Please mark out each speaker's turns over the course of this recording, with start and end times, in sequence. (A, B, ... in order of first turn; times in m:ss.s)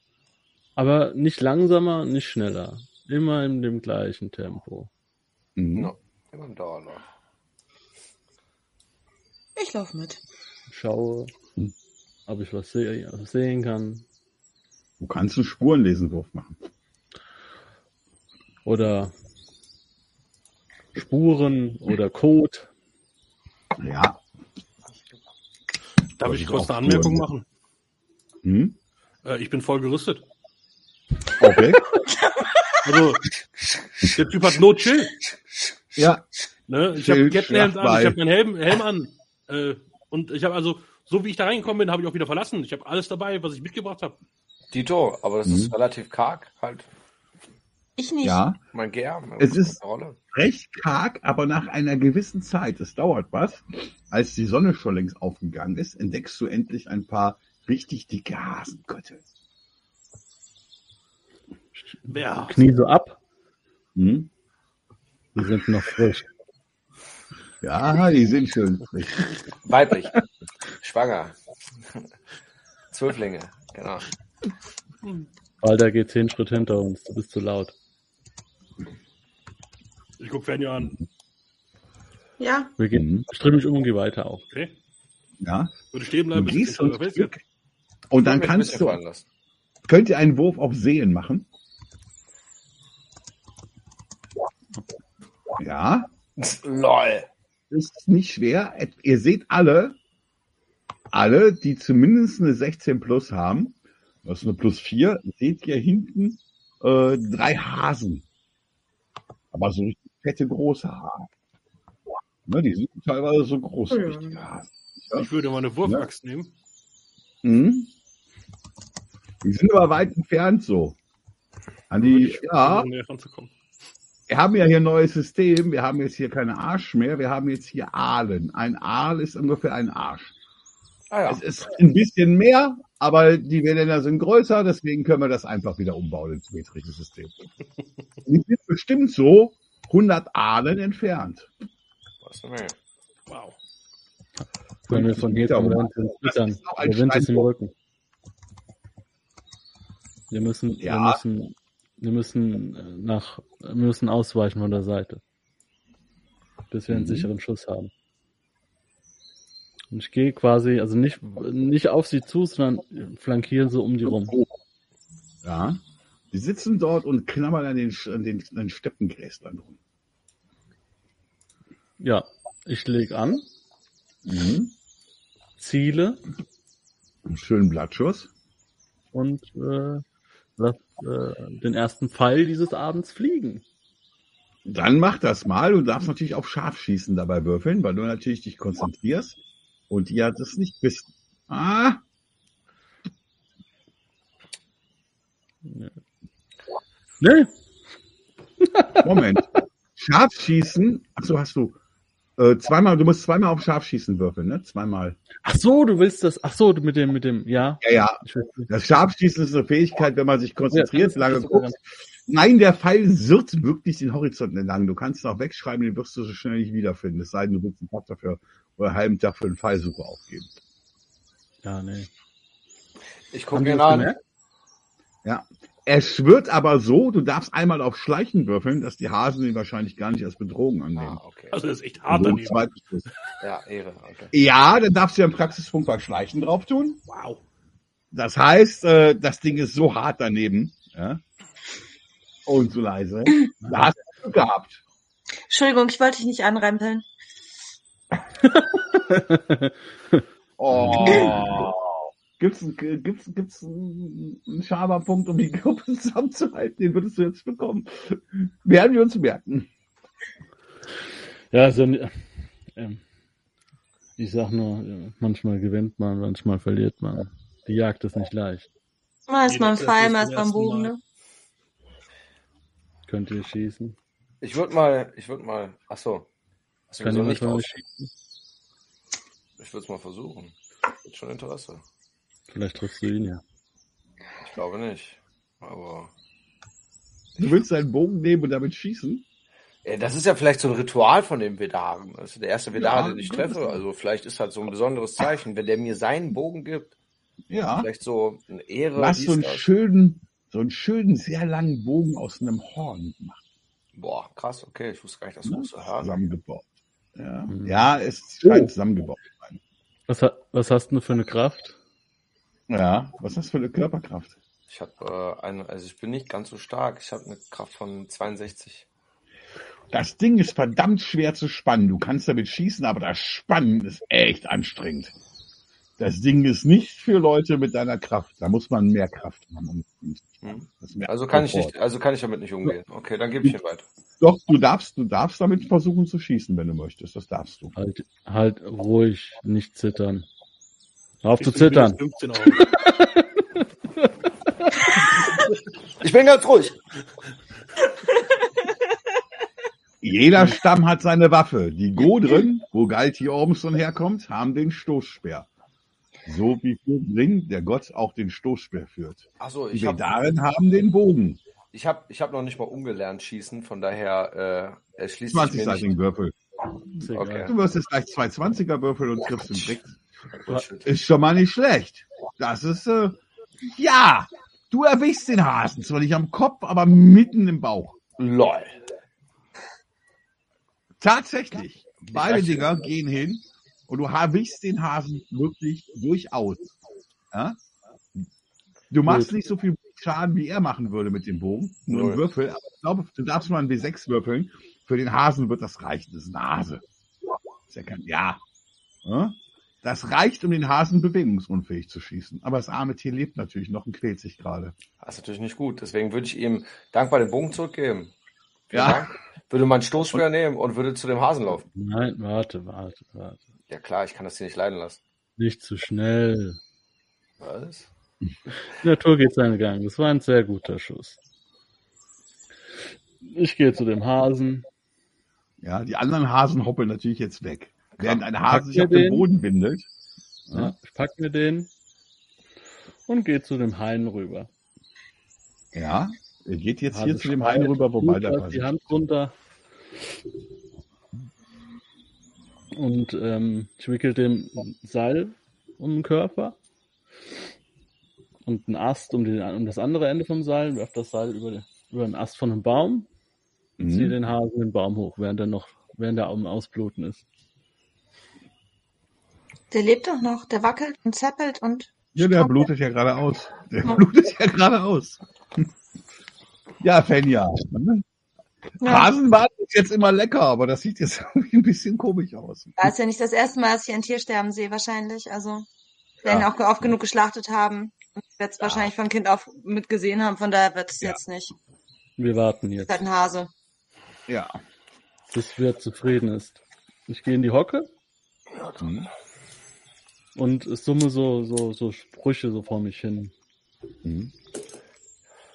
0:00.8-0:04.9 A
0:05.6-0:05.9 B
0:05.8-0:07.1 C
0:09.6-0:10.2 D
0:10.7-0:11.3 A
0:12.3-0:14.0 A
0:15.0-0:16.6 B
0:18.6-0:19.1 A
0:21.0-0:22.7 A
0:23.8-0:24.2 B
0:26.2-0:27.4 E
0:26.2-0:27.2 B
0:28.4-0:28.8 B
0:29.2-0:30.2 E
0:31.4-0:31.9 B
0:32.2-0:33.0 D
0:32.8-0:33.2 E
0:34.1-0:35.2 E
0:36.0-0:36.2 B
0:36.7-0:44.2 E
0:36.9-0:38.2 B
0:44.7-0:46.9 C
0:45.4-0:45.7 B
0:48.0-0:48.4 D
0:48.2-0:48.6 B
0:48.7-0:50.2 C
0:49.4-0:49.8 B
0:50.3-0:59.2 B
1:02.0-1:02.6 E
1:02.5-1:03.2 A
1:04.0-1:04.3 B
1:05.4-1:06.3 A
1:07.6-1:09.4 B
1:09.6-1:10.2 C
1:10.8-1:11.4 C
1:12.9-1:14.1 C
1:15.6-1:17.8 A
1:20.2-1:21.0 E
1:22.4-1:22.7 D
1:22.8-1:24.4 A
1:22.9-1:23.2 B
1:25.4-1:25.7 B
1:25.9-1:27.4 E
1:26.3-1:27.3 B
1:28.1-1:29.0 B
1:28.2-1:29.2 C
1:29.9-1:31.5 B
1:35.6-1:36.1 B
1:36.4-1:37.3 C
1:37.7-1:40.0 B
1:41.1-1:48.2 B
1:49.5-1:51.3 B
1:52.5-1:55.3 B
1:53.9-1:54.4 D
1:55.2-1:56.5 E
1:57.4-1:57.9 B
1:59.4-2:01.0 B
2:01.9-2:02.9 B
2:02.0-2:03.5 E
2:04.3-2:10.3 B
2:11.1-2:11.4 C
2:11.3-2:17.4 B
2:18.3-2:21.5 B
2:22.2-2:22.8 C
2:23.3-2:23.6 E
2:24.9-2:27.7 A
2:24.9-2:27.5 B
2:30.3-2:35.2 A
2:30.8-2:31.2 B
2:36.7-2:37.9 A
2:36.9-2:37.3 B
2:39.9-2:44.4 A
2:44.1-2:44.5 B
2:45.4-2:45.8 B
2:46.3-2:49.8 B
2:52.0-2:53.5 A
2:54.2-2:54.7 B
2:55.6-2:56.2 A
2:57.3-2:58.3 B
2:59.1-3:00.0 A
3:00.6-3:03.6 A
3:04.7-3:09.4 B
3:09.9-3:12.0 B
3:15.6-3:16.0 A
3:17.2-3:17.5 A
3:18.6-3:19.4 A
3:19.0-3:21.8 B
3:22.4-3:25.2 B
3:25.4-3:28.7 A
3:27.8-3:40.5 B
3:30.7-3:31.8 A
3:41.6-3:42.1 A
3:43.3-3:44.1 C
3:43.5-3:44.2 A
3:45.2-3:51.2 B
3:51.0-3:51.6 C
3:51.5-3:52.6 E
3:52.1-3:53.1 B
3:53.4-3:54.3 C
3:54.3-3:57.0 B
3:57.1-3:57.4 E
3:58.1-4:01.2 B
4:02.5-4:04.8 B
4:05.5-4:07.0 D
4:08.6-4:10.2 A
4:10.6-4:19.7 B
4:10.8-4:11.3 A
4:11.0-4:11.4 C
4:21.5-4:23.0 A
4:24.2-4:28.7 A
4:29.3-4:31.0 D
4:29.5-4:30.9 E
4:33.1-4:34.0 A
4:34.4-4:36.3 C
4:36.9-4:37.7 C
4:37.0-4:38.1 A
4:39.6-4:40.5 C
4:41.0-4:41.8 C
4:42.5-4:43.4 A
4:44.4-4:46.1 C
4:47.4-4:49.2 B
4:49.8-4:56.9 C
4:52.8-4:53.8 B
4:57.5-4:57.9 B
4:57.7-4:59.7 C
4:59.0-5:03.4 B
5:04.0-5:06.1 C
5:05.5-5:09.6 B
5:07.5-5:08.7 A
5:10.1-5:11.8 A
5:12.7-5:14.4 B
5:14.7-5:18.9 C
5:19.9-5:25.1 B
5:26.0-5:31.8 B
5:30.4-5:33.8 C
5:34.2-5:37.7 B
5:37.8-5:40.3 A
5:41.2-5:42.0 A
5:41.4-5:42.8 E
5:42.6-5:45.1 A
5:46.0-5:46.8 C
5:50.0-5:55.5 B
5:56.3-6:01.4 B
5:59.4-6:00.1 C
6:01.7-6:06.0 C
6:05.3-6:06.3 B
6:07.0-6:07.5 A
6:07.1-6:07.6 C
6:07.4-6:09.9 B
6:10.3-6:10.9 C
6:10.8-6:18.0 B
6:18.2-6:18.8 C
6:21.0-6:26.8 B
6:22.2-6:22.7 C
6:27.3-6:27.6 B
6:28.9-6:36.8 B
6:29.0-6:29.3 A
6:31.9-6:32.2 C
6:37.7-6:38.4 B
6:39.0-6:44.8 B
6:45.0-6:48.1 C
6:48.7-6:51.6 C
6:48.7-6:49.1 B
6:51.8-6:53.4 A
6:53.7-6:55.0 C
6:55.4-6:56.6 A
6:57.4-6:57.9 C
6:58.7-7:01.2 A
7:03.2-7:04.6 A
7:05.6-7:09.9 B
7:08.5-7:09.3 A
7:10.5-7:10.7 B
7:10.5-7:11.7 A
7:13.1-7:14.5 A
7:15.7-7:19.0 B
7:16.9-7:19.4 A
7:22.7-7:26.6 A
7:28.5-7:33.1 A
7:33.8-7:34.1 B
7:33.8-7:37.2 A
7:39.7-7:42.7 D
7:42.2-7:45.7 B
7:46.8-7:48.0 B
7:48.8-7:49.1 D
7:48.8-7:52.9 B
7:52.8-7:55.7 D
7:56.2-8:01.5 D
7:58.6-7:58.9 B
8:02.2-8:03.0 A
8:02.9-8:03.5 D
8:04.3-8:04.6 B
8:05.3-8:07.9 A
8:08.8-8:09.1 B
8:10.4-8:13.3 A
8:14.0-8:14.3 B